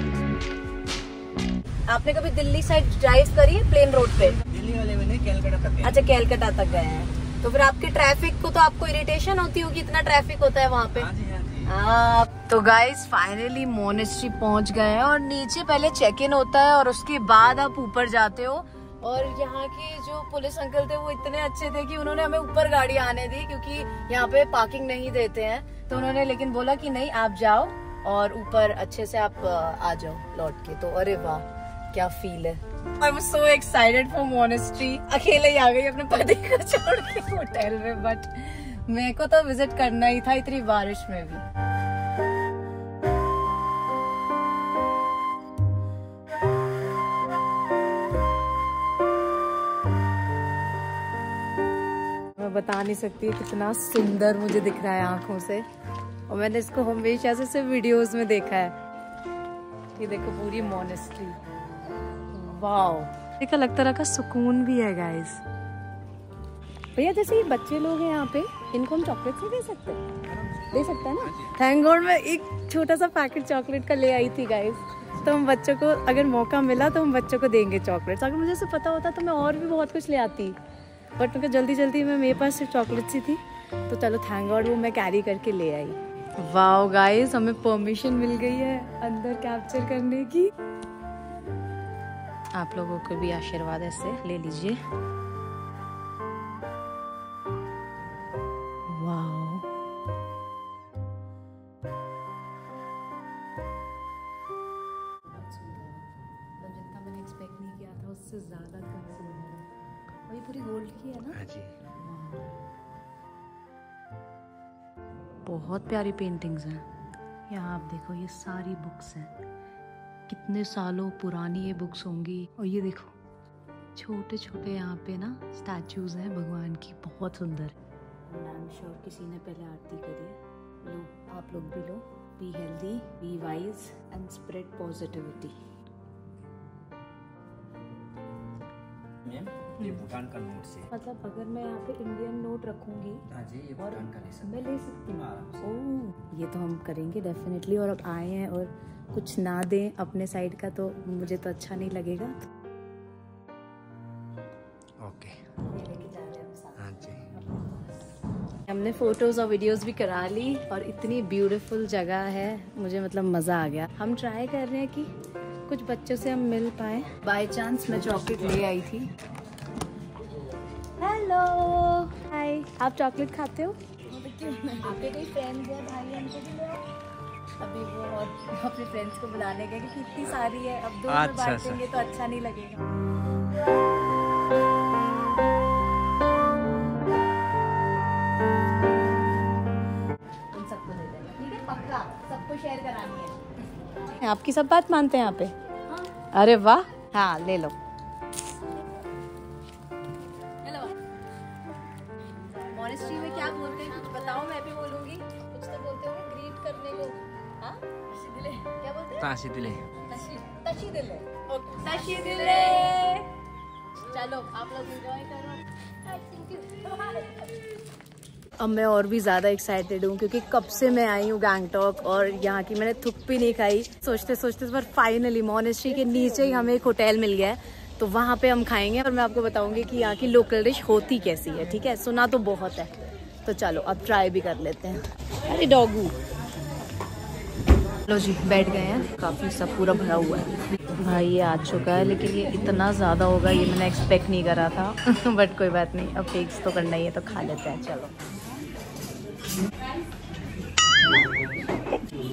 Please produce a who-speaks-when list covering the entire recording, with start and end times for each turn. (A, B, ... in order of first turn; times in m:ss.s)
0:01.9-0:04.4 A
0:04.4-0:06.0 B
0:05.8-0:11.1 A
0:10.9-0:11.7 B
0:11.7-0:41.4 A
0:52.4-0:55.6 A
0:56.3-0:58.7 A
1:00.0-1:01.4 A
1:02.3-1:05.4 A
1:07.0-1:10.1 A
1:10.2-1:11.6 B
1:10.7-1:20.6 A
1:21.2-1:30.5 A
1:32.6-1:34.8 A
1:38.9-1:39.7 A
1:45.3-1:46.0 A
1:46.6-1:49.7 A
1:50.3-1:52.5 A
1:51.3-1:51.7 B
1:55.4-1:56.8 A
1:57.5-1:59.3 A
2:00.3-2:03.1 A
2:04.0-2:07.7 A
2:08.3-2:15.6 A
2:19.3-2:20.9 B
2:20.9-2:23.2 A
2:23.3-2:25.8 B
2:23.8-2:32.5 A
2:35.0-2:35.4 B
2:35.6-2:37.4 A
2:36.8-2:37.2 B
2:38.7-2:45.1 A
2:45.7-2:49.1 A
2:51.0-2:56.8 A
2:57.6-3:02.8 A
3:01.1-3:01.9 B
3:10.5-3:17.8 A
3:20.6-3:21.0 A
3:22.7-3:29.3 A
3:29.2-3:29.8 B
3:30.0-3:33.3 A
3:34.0-3:37.6 A
3:38.6-3:56.1 A
3:58.1-4:08.1 A